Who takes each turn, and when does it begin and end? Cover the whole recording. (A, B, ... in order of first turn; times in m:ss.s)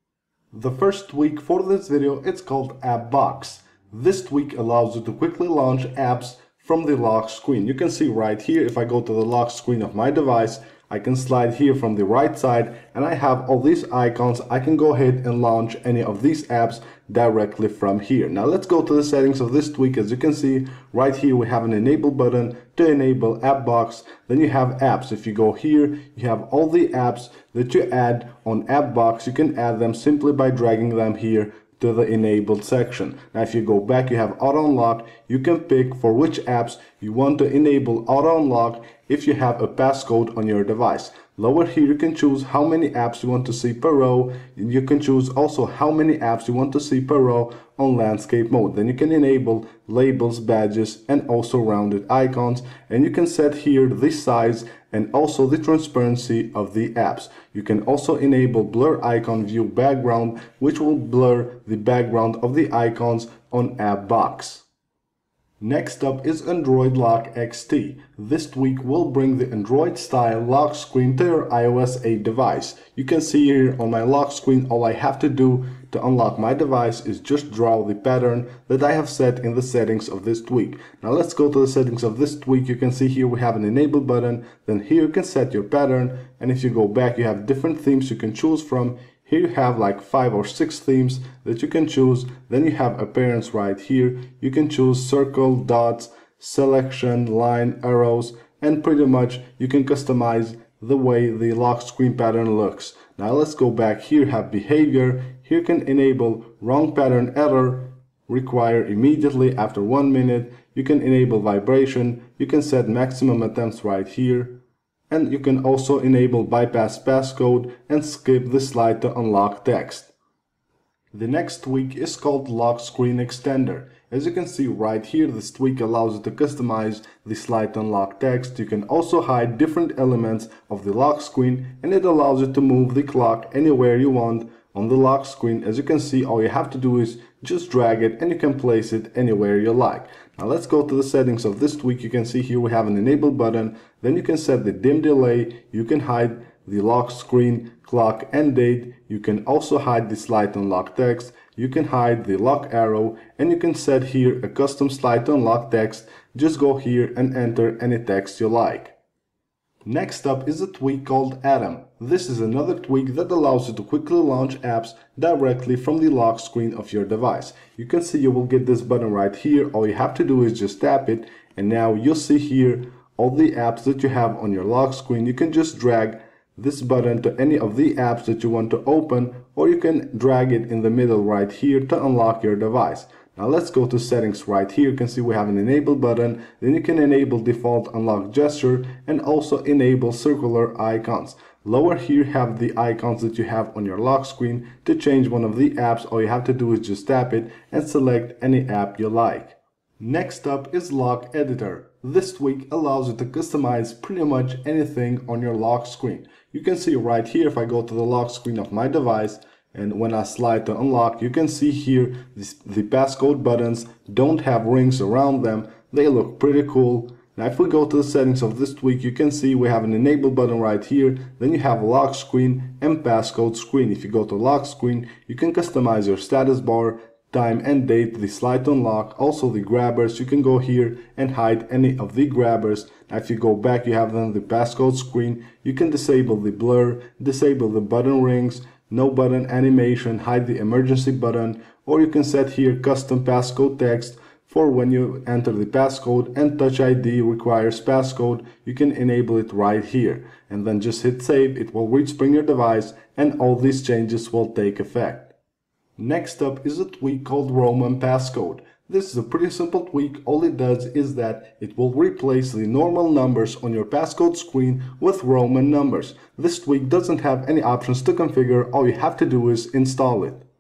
0:00.5-1:04.7 A
1:05.6-2:00.1 A
2:01.1-2:39.0 A
2:39.8-4:15.4 A
4:16.0-4:30.5 A